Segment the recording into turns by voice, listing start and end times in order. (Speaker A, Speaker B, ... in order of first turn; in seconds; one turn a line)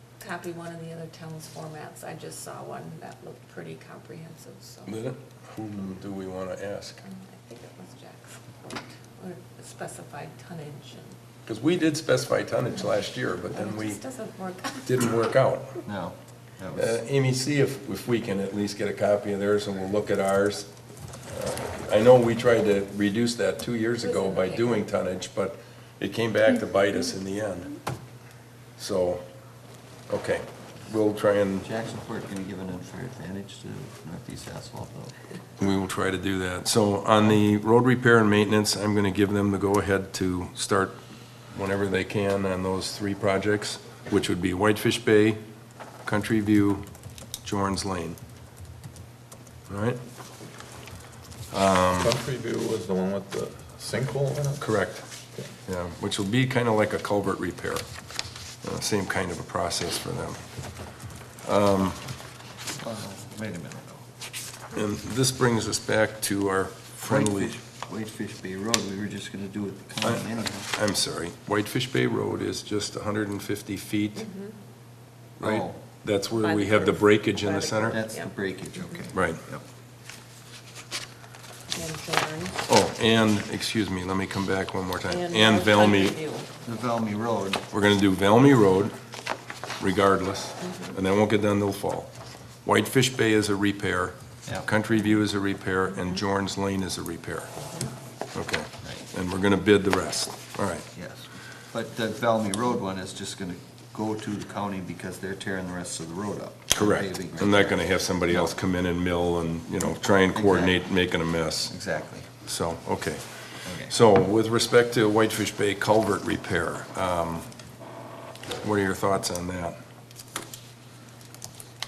Speaker A: 0.2-5.0
Speaker B: 4.9-7.0
Speaker A: 7.0-11.2
Speaker B: 11.5-14.0
Speaker A: 13.5-15.0
Speaker B: 14.8-15.8
Speaker C: 15.9-17.0
Speaker B: 16.8-20.7
Speaker B: 21.3-27.8
Speaker A: 24.0-24.9
Speaker B: 28.8-29.2
Speaker B: 30.1-31.7
Speaker C: 31.6-35.2
Speaker B: 35.6-41.0
Speaker B: 41.5-45.4
Speaker B: 46.0-46.9
Speaker B: 47.4-48.2
Speaker B: 49.7-50.0
Speaker B: 51.5-52.2
Speaker D: 52.0-54.7
Speaker B: 54.6-55.1
Speaker B: 55.7-57.9
Speaker B: 58.6-60.5
Speaker B: 61.4-62.0
Speaker C: 62.8-64.1
Speaker B: 64.7-67.6
Speaker C: 67.1-70.7
Speaker B: 70.0-74.3
Speaker A: 74.2-74.6
Speaker B: 75.4-78.0
Speaker C: 75.4-75.8
Speaker A: 76.3-79.1
Speaker C: 77.9-79.6
Speaker B: 79.1-79.4
Speaker A: 81.7-82.7
Speaker B: 82.7-86.2
Speaker A: 85.0-86.5
Speaker C: 86.6-87.7
Speaker B: 87.7-89.0
Speaker B: 89.8-92.1
Speaker A: 90.6-91.0
Speaker B: 92.6-97.5
Speaker A: 97.6-97.9
Speaker B: 98.3-100.9
Speaker C: 100.9-108.5
Speaker B: 106.7-111.8
Speaker C: 110.3-110.8
Speaker C: 111.7-112.3
Speaker B: 112.3-117.5
Speaker C: 113.7-113.9
Speaker B: 118.6-119.8